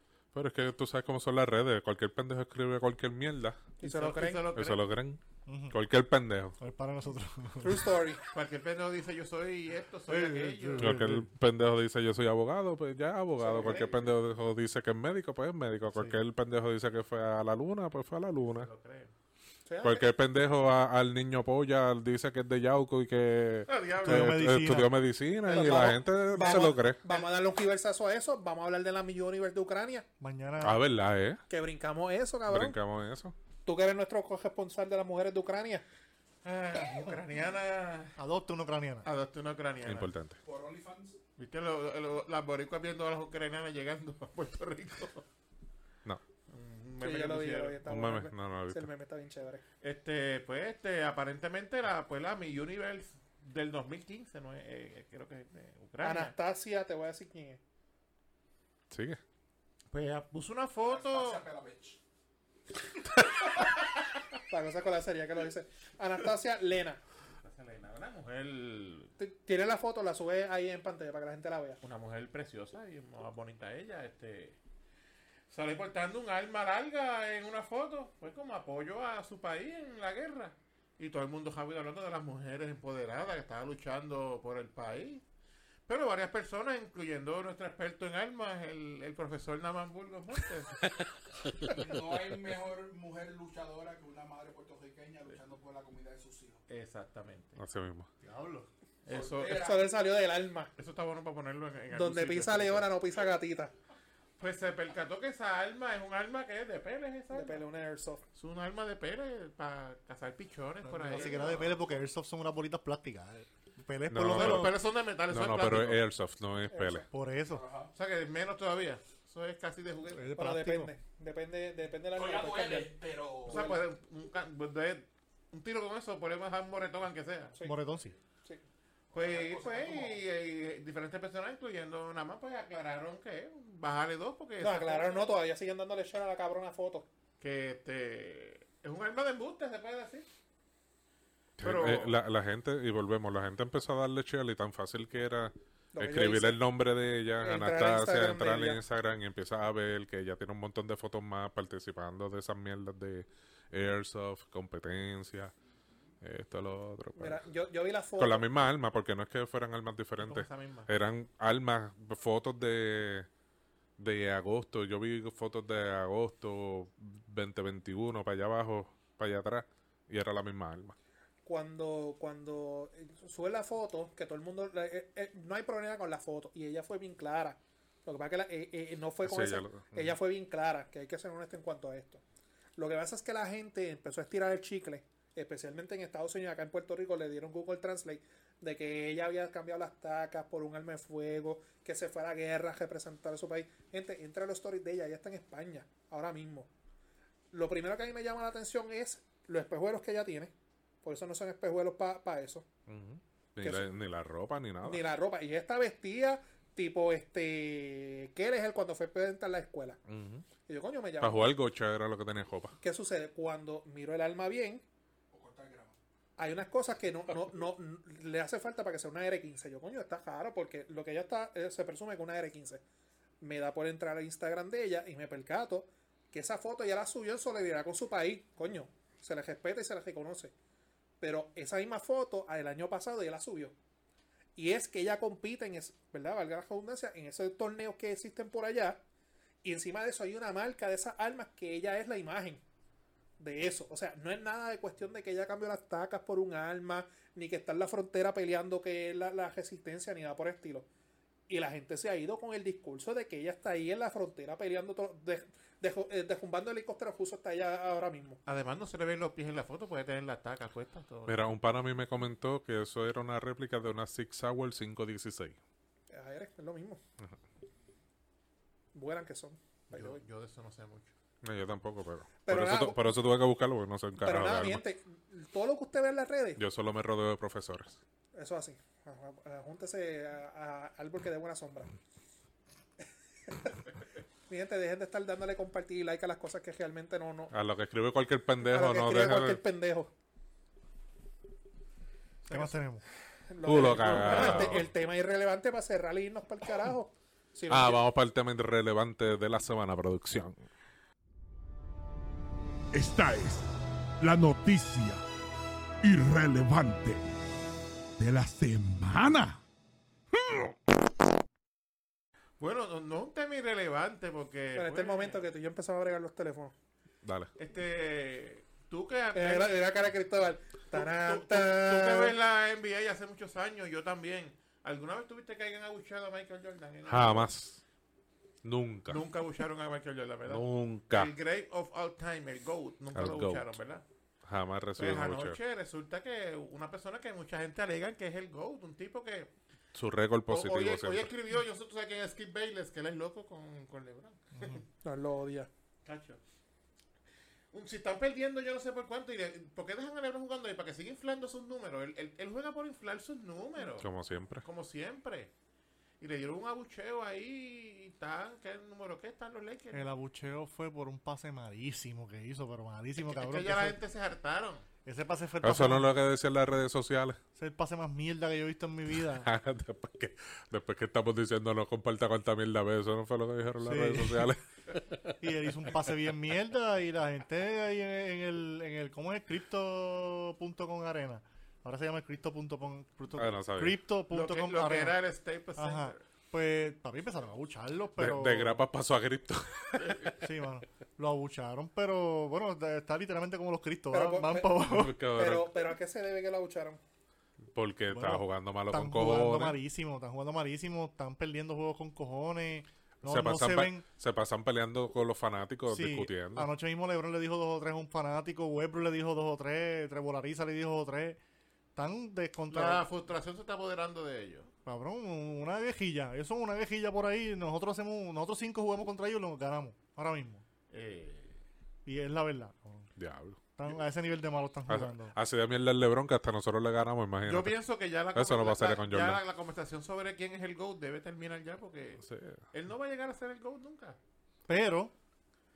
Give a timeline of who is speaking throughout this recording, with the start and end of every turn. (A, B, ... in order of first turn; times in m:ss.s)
0:00.3-0:03.7 A
0:03.8-0:04.5 B
0:03.8-0:04.9 C
0:04.5-0:06.6 A
0:05.5-0:05.8 D
0:06.6-0:07.9 D
0:07.6-0:08.2 B
0:08.3-0:11.0 C
0:10.1-0:11.3 D
0:10.8-0:18.7 A
0:13.4-0:14.0 B
0:13.5-0:14.1 C
0:15.9-0:16.2 D
0:18.4-0:19.1 C
0:19.7-0:20.1 B
0:19.8-0:27.0 A
0:23.7-0:24.5 C
0:24.0-0:25.0 D
0:25.5-0:30.1 B
0:25.6-0:27.2 C
0:30.2-0:30.8 D
0:30.6-0:31.4 A
0:31.5-0:32.8 B
0:32.5-0:33.4 A
0:33.7-0:35.8 B
0:36.4-0:38.2 C
0:38.2-0:39.1 D
0:39.0-0:40.1 C
0:39.8-0:40.4 A
0:40.4-0:41.2 E
0:41.4-0:45.2 C
0:46.5-0:47.8 C
0:47.0-0:49.6 B
0:47.8-0:48.9 A
0:49.8-0:56.4 C
0:56.0-0:57.6 B
0:58.9-0:59.2 A
0:59.9-1:01.4 C
1:00.8-1:02.0 E
1:04.5-1:07.0 B
1:07.4-1:09.1 C
1:09.2-1:11.8 B
1:11.8-1:14.6 C
1:15.5-1:25.2 C
1:25.9-1:30.8 C
1:31.7-1:36.6 E
1:36.7-1:37.6 C
1:37.6-1:38.1 A
1:38.2-1:38.7 D
1:39.0-1:39.7 C
1:39.1-1:39.9 E
1:39.4-1:40.7 B
1:40.8-1:42.9 C
1:41.9-1:43.7 B
1:44.4-1:47.6 C
1:47.3-1:48.2 B
1:48.4-1:51.8 C
1:50.8-1:54.8 D
1:54.1-1:54.8 A
1:54.3-1:56.0 C
1:55.3-1:57.1 A
1:56.7-1:57.1 B
1:57.1-1:57.6 D
1:57.5-1:57.9 E
1:57.9-2:00.3 C
2:00.1-2:00.9 D
2:00.4-2:02.9 B
2:02.2-2:03.7 E
2:03.5-2:07.6 C
2:03.5-2:03.8 B
2:07.6-2:08.2 D
2:09.1-2:15.3 C
2:09.2-2:10.2 E
2:14.6-2:17.1 B
2:17.4-2:20.3 C
2:21.6-2:35.5 A
2:21.6-2:22.2 C
2:25.9-2:26.6 B
2:27.4-2:28.8 B
2:36.2-2:37.4 A
2:37.2-2:38.5 B
2:38.2-2:43.3 A
2:40.2-2:40.9 C
2:44.0-2:51.0 A
2:51.4-3:02.2 B
2:59.2-3:00.2 A
3:02.8-3:16.7 B
3:17.5-3:20.5 B
3:21.0-3:22.7 B
3:22.9-3:25.0 A
3:23.6-3:23.9 B
3:24.8-3:30.0 B
3:30.1-3:30.5 A
3:30.7-3:31.5 B
3:31.2-3:32.8 A
3:32.8-3:34.8 B
3:35.3-3:36.0 E
3:36.4-3:42.8 B
3:43.4-3:50.5 B
3:51.2-3:53.7 B
3:54.6-3:59.0 B
3:59.6-4:02.6 B
4:03.4-4:10.9 B
4:11.5-4:18.4 B
4:18.5-4:21.4 C
4:21.3-4:25.6 A
4:26.1-4:27.0 B
4:28.9-4:30.1 B
4:29.9-4:31.1 C
4:31.4-4:34.8 A
4:32.4-4:33.2 B
4:34.2-4:36.6 B
4:36.6-4:38.0 A
4:38.4-4:41.9 B
4:43.5-4:43.8 B
4:44.5-4:47.5 B
4:47.5-4:49.6 A
4:48.7-4:50.1 B
4:52.4-4:52.8 B
4:52.5-4:53.0 D
4:53.5-4:58.0 B
4:53.6-4:54.9 A
4:54.2-4:54.7 C
4:57.7-5:00.6 A
5:02.9-5:03.7 F
5:04.2-5:05.2 F
5:06.0-5:07.3 F
5:08.2-5:09.6 F
5:12.6-5:15.4 C
5:14.8-5:16.7 B
5:17.2-5:17.5 A
5:17.6-5:19.8 C
5:19.3-5:22.4 B
5:20.9-5:27.5 C
5:27.1-5:27.8 A
5:28.6-5:29.2 A
5:29.1-5:34.0 C
5:30.5-5:31.3 A
5:33.1-5:33.8 A
5:34.4-5:35.6 A
5:35.0-5:39.5 C
5:39.9-5:41.3 A
5:40.5-5:44.9 C
5:44.6-5:44.8 D
5:45.0-5:45.7 B
5:46.0-5:46.4 C
5:47.7-5:54.1 C
5:54.0-5:54.6 A
5:54.6-5:55.5 C
5:56.2-6:00.0 C
5:59.9-6:04.0 D
6:03.2-6:04.9 C
6:05.0-6:06.1 D
6:05.6-6:07.4 A
6:07.6-6:09.5 D
6:09.3-6:15.4 A
6:13.8-6:14.5 D
6:15.4-6:25.2 D
6:23.4-6:24.0 A
6:24.3-6:26.2 C
6:25.8-6:28.8 D
6:28.2-6:30.5 A
6:30.0-6:30.3 C
6:30.4-6:35.2 D
6:34.1-6:34.7 B
6:34.9-6:35.7 A
6:35.3-6:37.0 B
6:37.7-6:39.8 A
6:38.1-6:44.0 D
6:43.2-6:46.7 A
6:45.9-6:51.4 D
6:52.0-6:53.1 D
6:52.7-6:54.7 C
6:54.9-7:00.6 D
7:00.9-7:01.6 C
7:02.0-7:03.1 D
7:03.2-7:03.6 A
7:03.8-7:05.4 D
7:04.9-7:07.8 A
7:07.4-7:14.2 C
7:08.3-7:09.4 A
7:12.2-7:12.6 A
7:14.7-7:15.1 D